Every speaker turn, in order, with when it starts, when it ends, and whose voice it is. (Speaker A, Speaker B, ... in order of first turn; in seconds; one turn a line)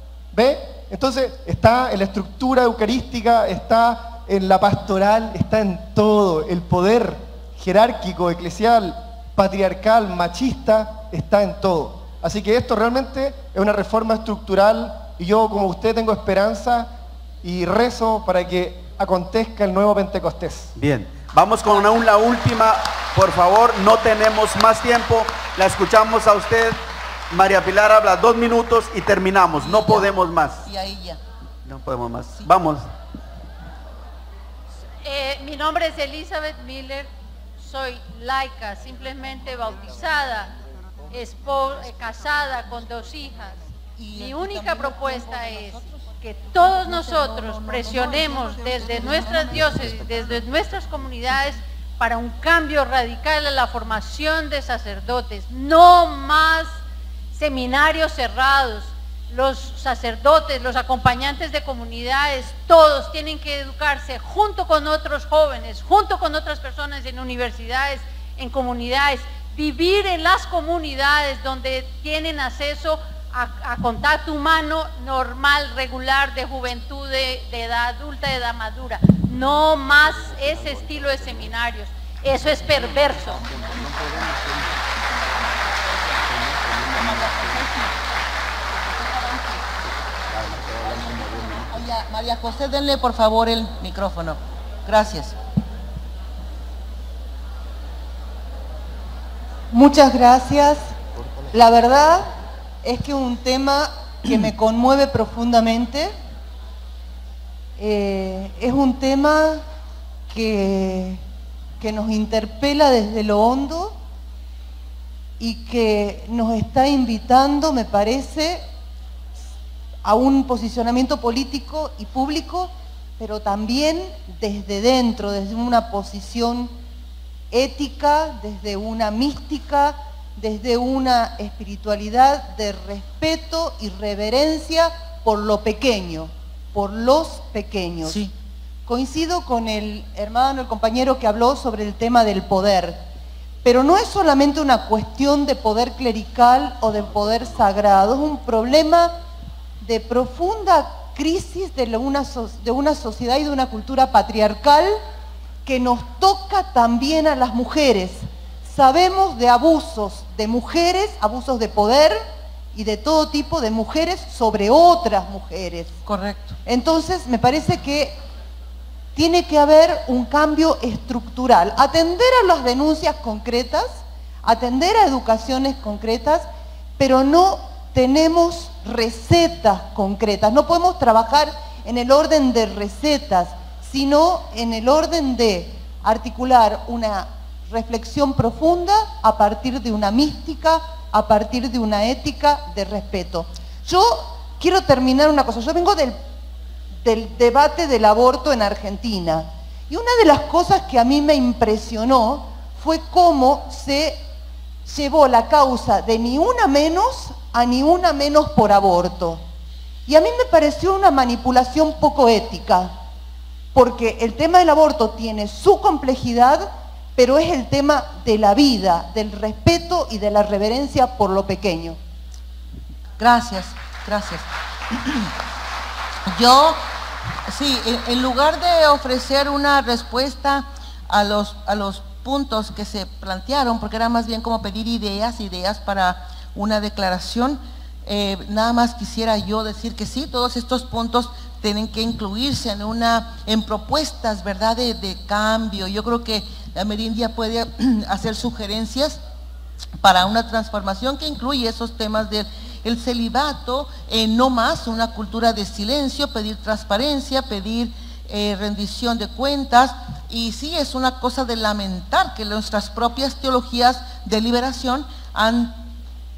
Speaker A: 0.3-20.7
Speaker B: 20.8-26.8
Speaker B: 27.3-30.6
Speaker C: 29.6-30.1
Speaker C: 30.6-31.2
Speaker B: 31.6-32.9
Speaker D: 35.0-40.5
Speaker D: 41.1-43.5
Speaker C: 44.0-50.5
Speaker D: 44.1-56.7
Speaker D: 57.3-83.5
Speaker C: 82.7-84.7
Speaker C: 86.8-88.0
Speaker C: 88.7-89.7
Speaker C: 90.7-95.4
Speaker E: 99.7-100.9
Speaker E: 101.5-102.3
Speaker E: 102.8-106.1
Speaker E: 107.8-109.6
Speaker E: 110.3-111.2
Speaker E: 111.8-114.0
Speaker E: 115.4-118.7
Speaker E: 120.0-126.7
Speaker E: 127.5-138.2
Speaker C: 138.0-138.3
Speaker E: 138.9-143.0
Speaker E: 143.6-149.2
Speaker E: 149.8-155.0
Speaker E: 155.7-166.0
Speaker C: 166.1-166.6
Speaker E: 166.7-168.2
Speaker E: 169.2-176.5
Speaker E: 177.0-196.2
Speaker E: 197.0-204.2
Speaker E: 204.8-209.4
Speaker E: 210.1-212.9
Speaker E: 213.7-222.0
Speaker C: 223.2-225.3
Speaker C: 226.3-226.8
Speaker C: 227.5-249.2
Speaker C: 250.0-265.9